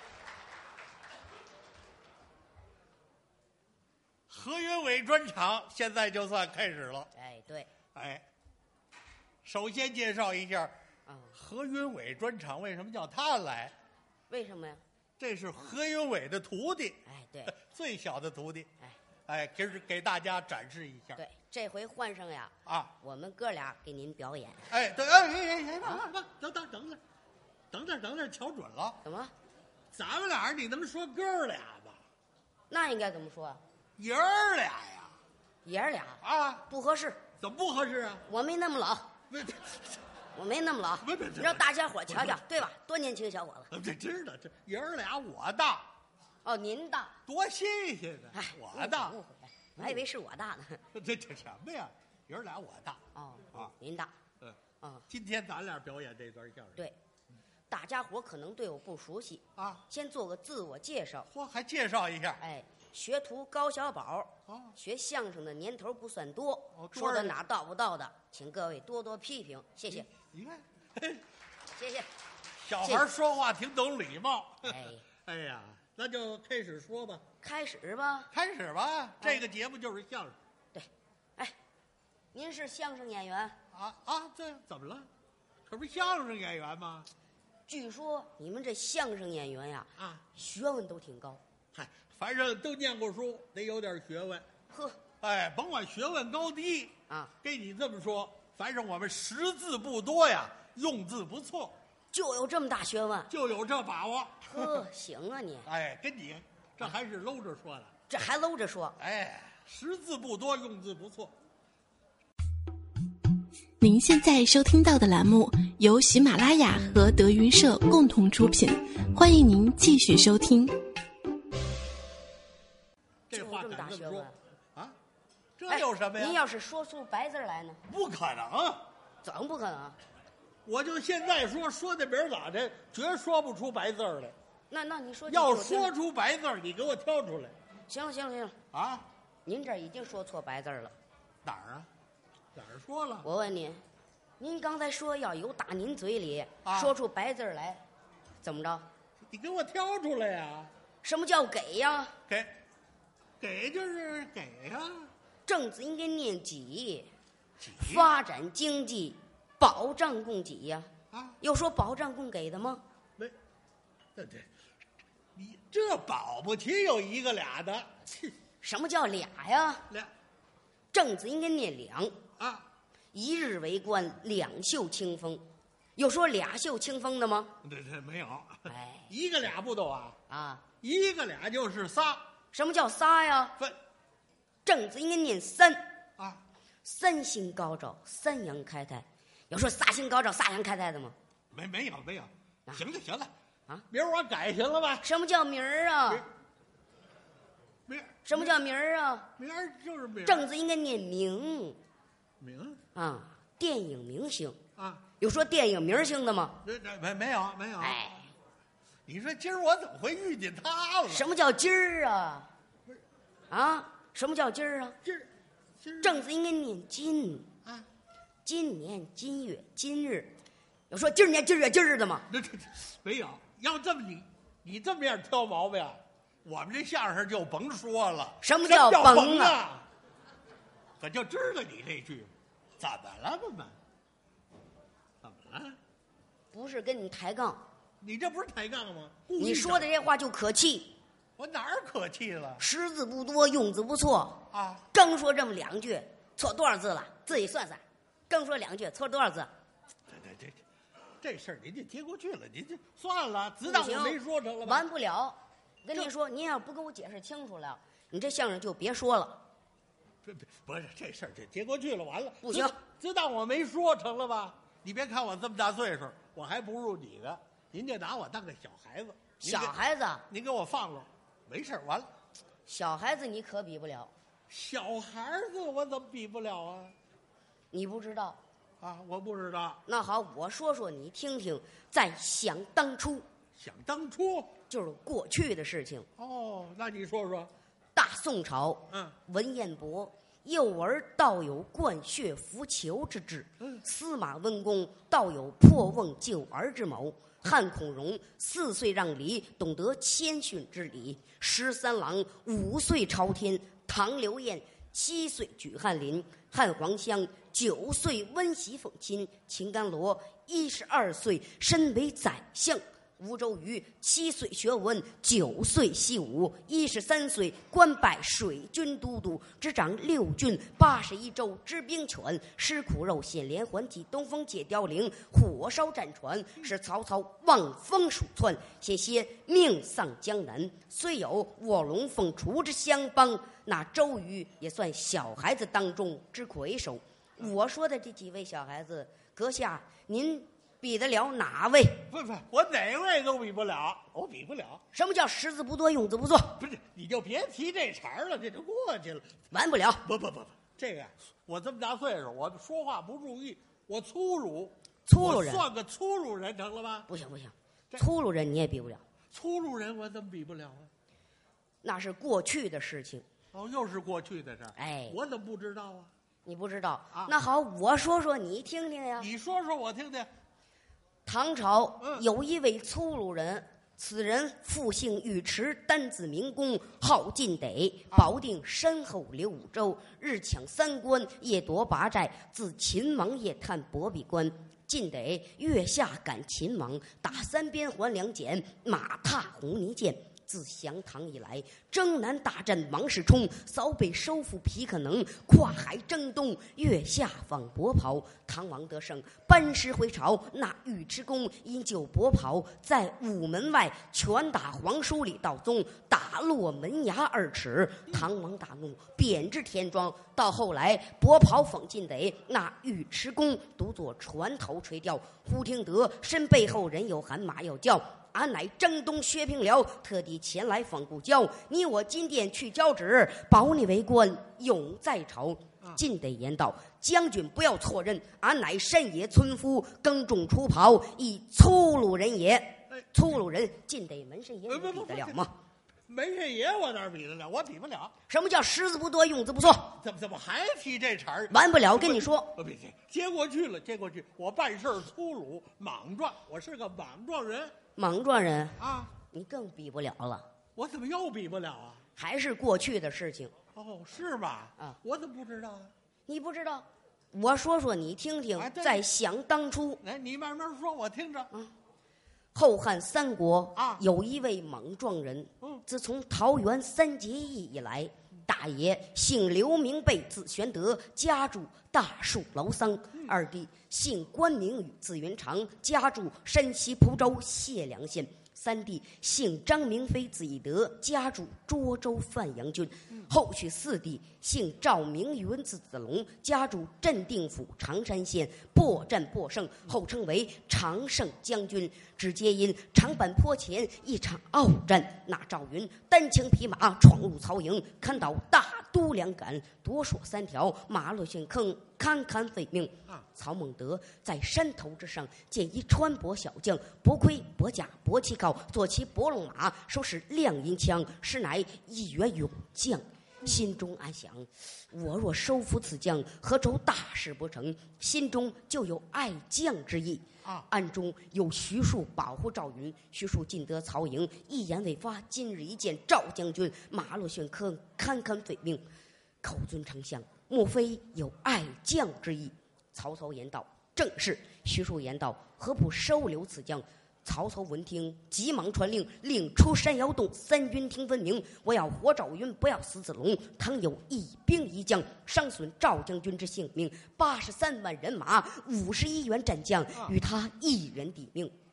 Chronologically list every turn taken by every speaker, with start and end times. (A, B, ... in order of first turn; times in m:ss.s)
0:04.3-0:07.1 A
0:07.2-0:07.7 B
0:07.9-0:08.2 A
0:09.4-0:10.8 A
0:11.1-0:11.4 B
0:11.4-0:13.7 A
0:14.3-0:14.8 B
0:15.2-0:17.0 A
0:17.1-0:17.6 B
0:17.6-0:18.7 A
0:19.3-0:21.2 A
0:21.2-0:24.7 B
0:22.7-0:22.9 A
0:24.7-0:27.0 A
0:27.7-0:29.0 A
0:29.0-0:29.3 B
0:29.9-0:32.0 A
0:32.7-0:33.6 B
0:34.0-0:35.1 A
0:35.6-0:37.2 B
0:36.2-0:36.6 A
0:37.4-0:38.2 A
0:38.3-0:39.1 B
0:39.3-0:39.9 A
0:40.4-0:43.7 B
0:41.0-0:42.5 A
0:43.7-0:45.9 A
0:46.4-0:47.2 B
0:47.3-0:49.2 A
0:48.3-0:50.8 B
0:50.9-0:53.0 A
0:53.1-0:54.1 B
0:54.8-0:55.1 B
0:55.1-0:56.8 A
0:57.7-1:01.3 B
0:59.6-0:59.8 A
1:01.3-1:02.4 A
1:02.4-1:10.1 B
1:04.5-1:04.7 A
1:06.8-1:07.4 A
1:10.3-1:11.2 A
1:11.8-1:12.1 B
1:12.6-1:17.2 A
1:14.6-1:15.0 B
1:17.4-1:18.3 B
1:18.3-1:20.4 A
1:20.7-1:21.6 B
1:22.3-1:23.6 B
1:23.7-1:25.1 A
1:25.7-1:27.1 A
1:27.7-1:31.4 B
1:30.0-1:30.2 A
1:31.7-1:34.5 A
1:34.7-1:35.0 B
1:35.2-1:41.8 A
1:37.1-1:37.3 B
1:42.1-1:43.3 B
1:43.3-1:44.8 A
1:44.4-1:45.7 B
1:45.7-1:47.9 A
1:48.1-1:49.0 B
1:49.0-1:51.3 A
1:53.8-2:00.8 C
2:03.3-2:05.0 A
2:03.3-2:04.4 B
2:05.6-2:06.4 A
2:05.7-2:07.8 B
2:07.9-2:08.8 A
2:09.2-2:10.0 B
2:10.7-2:14.4 A
2:14.7-2:15.9 B
2:15.3-2:17.6 A
2:17.9-2:18.6 B
2:18.7-2:19.1 A
2:19.5-2:20.9 B
2:21.4-2:21.9 A
2:22.6-2:23.3 A
2:23.2-2:23.8 B
2:24.4-2:27.8 B
2:26.6-2:26.9 A
2:28.4-2:28.9 B
2:29.3-2:30.7 A
2:31.0-2:32.2 B
2:33.4-2:35.1 A
2:35.5-2:37.1 B
2:37.6-2:38.1 A
2:37.8-2:40.9 B
2:41.1-2:41.4 A
2:41.4-2:42.8 B
2:44.2-2:44.5 A
2:45.4-2:48.3 A
2:48.6-2:49.9 B
2:50.9-2:52.2 B
2:52.4-2:52.7 A
2:53.1-2:55.4 B
2:56.0-2:57.6 B
2:57.6-3:00.2 A
2:58.7-2:59.1 B
3:00.3-3:00.6 B
3:00.8-3:02.2 A
3:02.5-3:03.6 B
3:04.6-3:05.9 B
3:06.8-3:11.2 B
3:11.5-3:13.3 A
3:13.9-3:15.0 A
3:15.0-3:16.3 B
3:17.9-3:18.4 A
3:18.2-3:19.3 B
3:19.4-3:20.4 A
3:20.2-3:21.8 B
3:22.4-3:22.8 A
3:23.0-3:24.6 B
3:24.8-3:25.0 A
3:25.2-3:26.6 B
3:26.6-3:28.0 A
3:27.8-3:28.3 B
3:29.1-3:31.3 A
3:31.1-3:32.5 B
3:33.5-3:35.0 B
3:35.8-3:36.3 A
3:36.0-3:37.5 B
3:38.4-3:40.3 B
3:40.9-3:42.3 B
3:42.3-3:49.9 A
3:48.4-3:49.6 B
3:51.0-3:53.8 A
3:55.2-3:55.8 A
3:56.5-3:57.6 B
3:58.0-3:59.9 A
3:59.4-4:00.9 B
4:01.4-4:02.6 A
4:02.6-4:09.5 B
4:04.5-4:04.8 A
4:10.1-4:10.6 A
4:11.2-4:14.8 A
4:13.6-4:19.5 B
4:20.2-4:29.8 A
4:22.4-4:22.8 B
4:29.4-4:30.2 B
4:30.3-4:32.1 A
4:32.7-4:34.1 B
4:34.5-4:36.9 A
4:37.7-4:38.4 B
4:38.8-4:39.8 A
4:39.9-4:43.2 B
4:43.6-4:44.5 A
4:44.7-4:46.1 B
4:46.2-4:47.5 A
4:48.0-5:42.1 B
5:42.1-5:44.8 A
5:44.9-5:46.6 B
5:46.6-5:49.3 A
5:49.5-5:50.0 B
5:50.0-5:57.1 A
5:55.1-5:55.7 B
5:57.1-5:59.0 B
5:59.3-6:00.9 A
6:01.8-6:03.2 B
6:03.5-6:06.1 A
6:04.8-6:05.2 B
6:06.4-6:09.3 B
6:09.2-6:10.3 A
6:11.3-7:15.6 B
7:14.7-7:15.4 A
7:16.1-7:18.1 A
7:18.3-7:19.9 B
7:19.9-7:27.7 A
7:21.5-7:22.5 B
7:28.0-7:30.5 B
7:28.8-7:29.1 A
7:30.8-7:32.0 A
7:32.2-7:33.5 B
7:33.8-7:35.9 A
7:36.3-7:40.0 B
7:38.6-7:39.0 A
7:40.0-7:41.5 A
7:42.6-8:48.8 B
7:43.8-7:44.0 A
8:49.4-9:11.5 B